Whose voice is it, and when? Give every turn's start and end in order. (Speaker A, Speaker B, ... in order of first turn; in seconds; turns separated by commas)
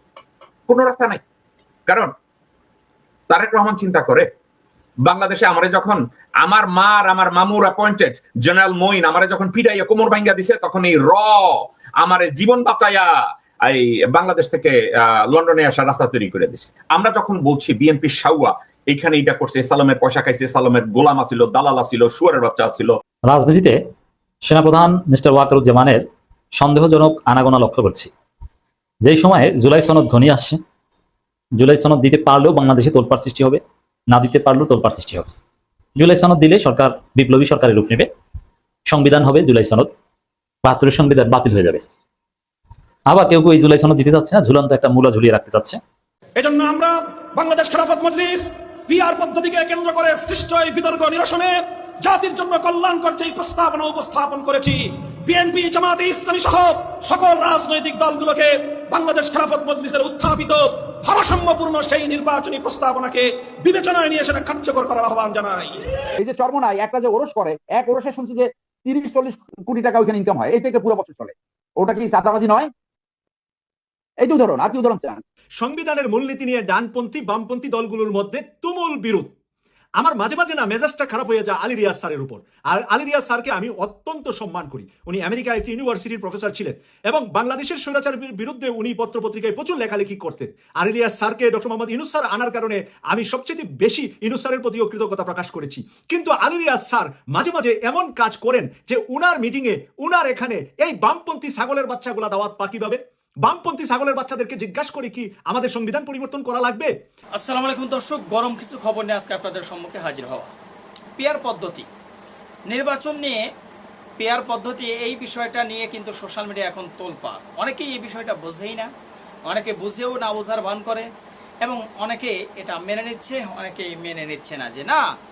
Speaker A: 0.7-1.2, Speaker A: 1.9-2.1, Speaker A: 3.3-4.3, Speaker A: 5.0-22.9, Speaker B: 23.3-23.8, Speaker B: 24.4-26.1, Speaker B: 26.6-28.1, Speaker B: 29.0-30.6, Speaker B: 31.6-35.3, Speaker B: 36.0-38.1, Speaker B: 38.9-39.9, Speaker B: 40.6-41.8, Speaker B: 43.1-45.8, Speaker C: 46.4-65.8, Speaker D: 66.2-72.7, Speaker D: 74.2-75.2, Speaker E: 75.6-79.3, Speaker E: 80.0-106.9, Speaker F: 107.4-110.5, Speaker F: 111.2-111.9, Speaker F: 112.7-113.4, Speaker F: 114.2-118.9, Speaker F: 119.5-121.1, Speaker F: 121.6-125.0